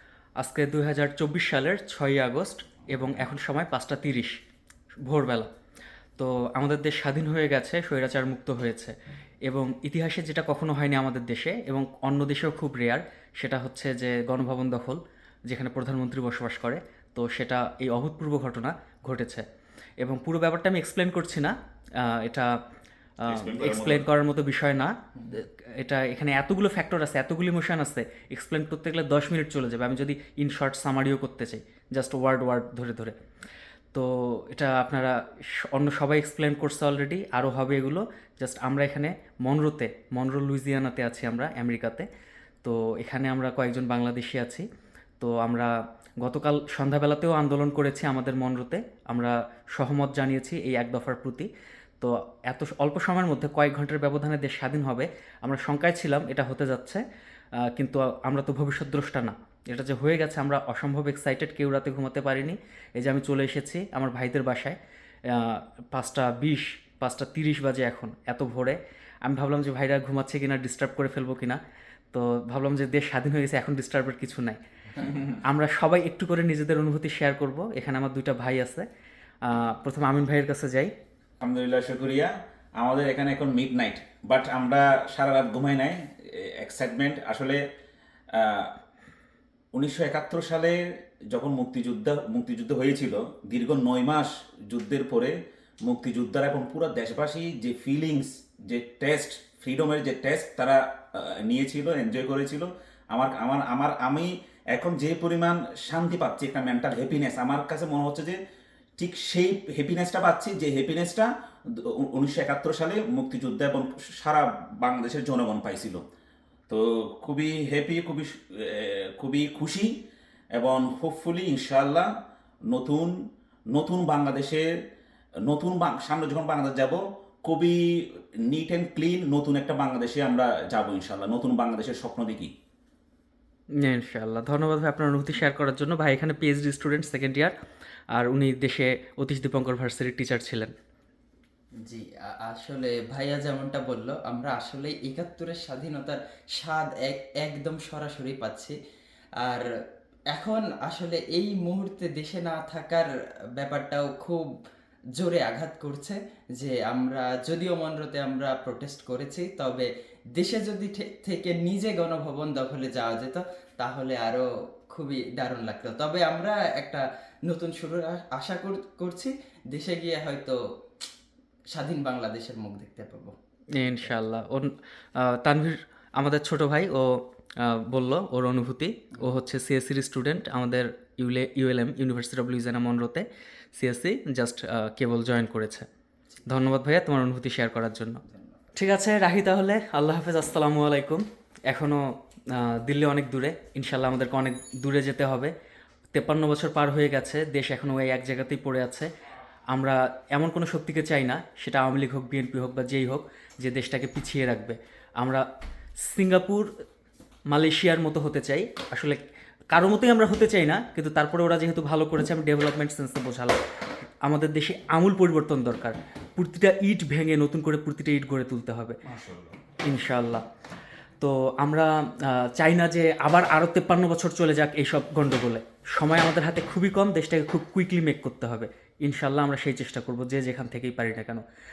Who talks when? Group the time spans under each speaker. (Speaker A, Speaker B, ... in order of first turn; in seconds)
Speaker A: 0.4-4.3, 5.0-5.5, 6.2-8.9, 9.4-19.4, 20.0-22.5, 23.2-33.1, 33.9-42.0, 42.6-44.6, 45.2-51.5, 52.0-57.0, 57.7-71.6, 72.1-74.6, 75.1-78.8, 79.4-80.9, 133.8-137.5, 138.1-140.7, 173.8-185.9, 186.5-188.2, 188.7-195.5, 196.1-199.1, 199.7-205.4, 206.0-206.7, 207.5-209.2, 209.7-213.6, 214.2-219.0, 219.8-220.4, 221.2-231.4
Speaker B: 23.3-24.1, 81.4-87.6, 88.3-88.8, 89.7-90.8, 91.3-108.4, 109.0-116.0, 116.7-120.0, 120.5-122.1, 122.7-123.1, 123.7-124.7, 125.4-132.5, 219.0-219.6
Speaker C: 141.8-148.7, 150.3-154.5, 155.2-170.6, 171.7-174.1, 188.3-188.7